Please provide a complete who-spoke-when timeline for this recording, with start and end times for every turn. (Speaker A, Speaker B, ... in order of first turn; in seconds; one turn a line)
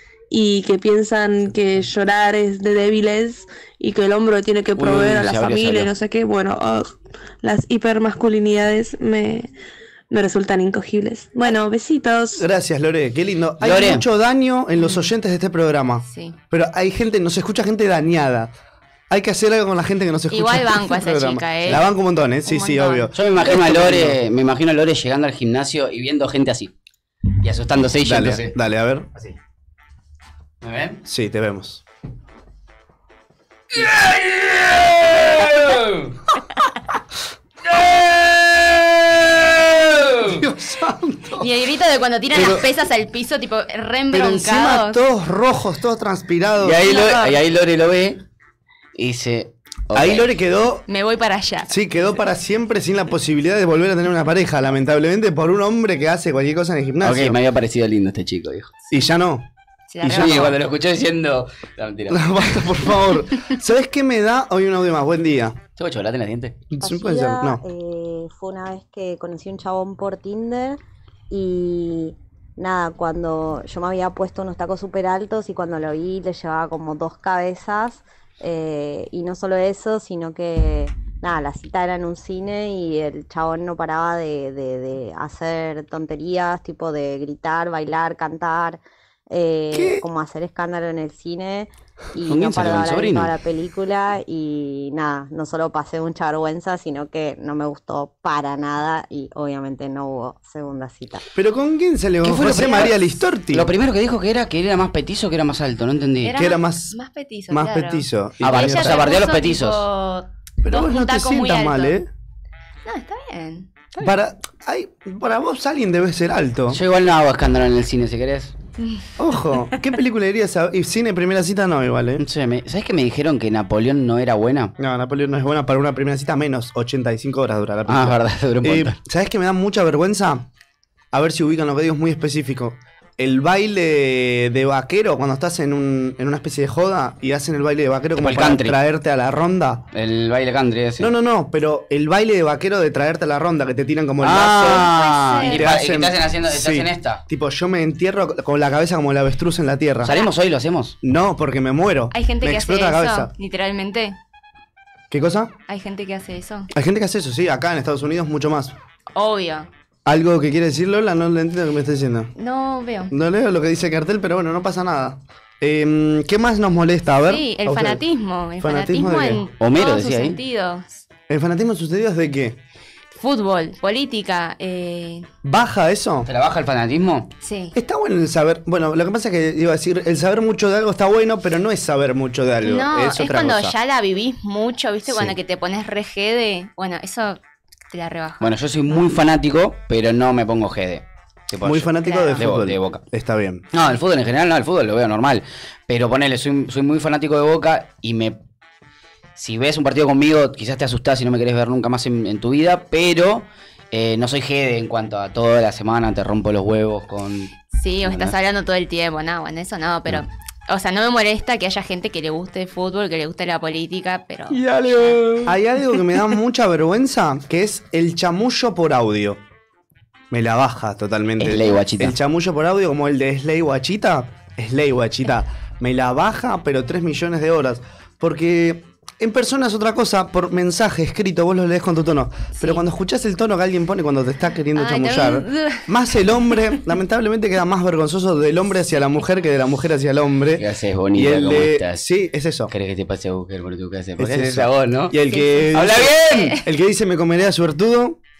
Speaker A: 0.3-9.5
Speaker B: 4.8-5.9
Speaker A: 10.1-12.5
Speaker C: 12.3-18.5
Speaker B: 13.6-14.0
Speaker D: 14.8-15.1
Speaker D: 16.1-16.4
Speaker C: 19.1-24.2
Speaker D: 20.3-21.9
Speaker D: 22.4-23.1
Speaker B: 23.1-26.7
Speaker B: 27.4-28.6
Speaker C: 28.0-29.1
Speaker B: 30.6-31.0
Speaker C: 31.0-31.8
Speaker B: 33.7-36.1
Speaker B: 37.6-40.4
Speaker C: 40.1-41.5
Speaker D: 41.4-45.0
Speaker C: 42.3-42.7
Speaker C: 44.1-46.9
Speaker B: 46.6-48.2
Speaker D: 46.8-47.4
Speaker B: 49.0-50.3
Speaker C: 49.9-50.8
Speaker D: 50.9-51.8
Speaker C: 51.7-57.4
Speaker B: 57.0-58.7
Speaker C: 58.9-59.5
Speaker D: 59.9-60.6
Speaker C: 60.0-60.6
Speaker B: 60.1-63.0
Speaker C: 62.1-65.6
Speaker B: 65.8-66.5
Speaker C: 66.7-67.6
Speaker E: 66.8-70.8
Speaker E: 71.3-101.2
Speaker C: 89.7-90.0
Speaker B: 92.2-93.3
Speaker C: 101.3-103.7
Speaker B: 102.2-106.3
Speaker D: 106.2-112.0
Speaker C: 106.3-107.0
Speaker C: 107.5-109.2
Speaker B: 108.4-109.8
Speaker C: 110.6-112.1
Speaker D: 112.8-113.7
Speaker C: 114.0-116.8
Speaker B: 116.7-118.5
Speaker C: 119.2-122.2
Speaker B: 122.2-124.7
Speaker C: 124.8-130.5
Speaker B: 127.9-129.0
Speaker C: 131.1-139.8
Speaker B: 138.2-138.8
Speaker B: 139.9-141.1
Speaker C: 141.0-150.2
Speaker B: 144.2-147.2
Speaker D: 144.6-145.6
Speaker B: 150.0-151.0
Speaker C: 151.0-153.3
Speaker D: 152.1-154.2
Speaker C: 155.1-155.5
Speaker D: 155.7-156.7
Speaker C: 156.7-158.7
Speaker D: 159.1-159.7
Speaker C: 160.1-162.3
Speaker D: 162.4-163.1
Speaker C: 163.1-168.0
Speaker D: 167.2-171.0
Speaker C: 168.6-169.4
Speaker B: 169.6-170.4
Speaker C: 171.3-172.6
Speaker D: 173.2-175.3
Speaker C: 175.4-176.3
Speaker B: 176.2-177.3
Speaker D: 177.4-177.8
Speaker C: 177.7-183.8
Speaker D: 182.6-187.4
Speaker D: 187.9-188.5
Speaker B: 188.4-193.0
Speaker C: 191.6-193.6
Speaker D: 192.0-192.5
Speaker B: 193.7-198.4
Speaker B: 199.3-208.3
Speaker D: 207.7-215.4
Speaker C: 214.7-219.4
Speaker C: 220.3-242.7
Speaker B: 221.4-222.2
Speaker D: 234.7-235.9
Speaker B: 240.6-242.1
Speaker B: 242.7-245.2
Speaker C: 244.2-248.2
Speaker D: 245.3-245.7
Speaker B: 245.7-246.5
Speaker D: 246.2-246.6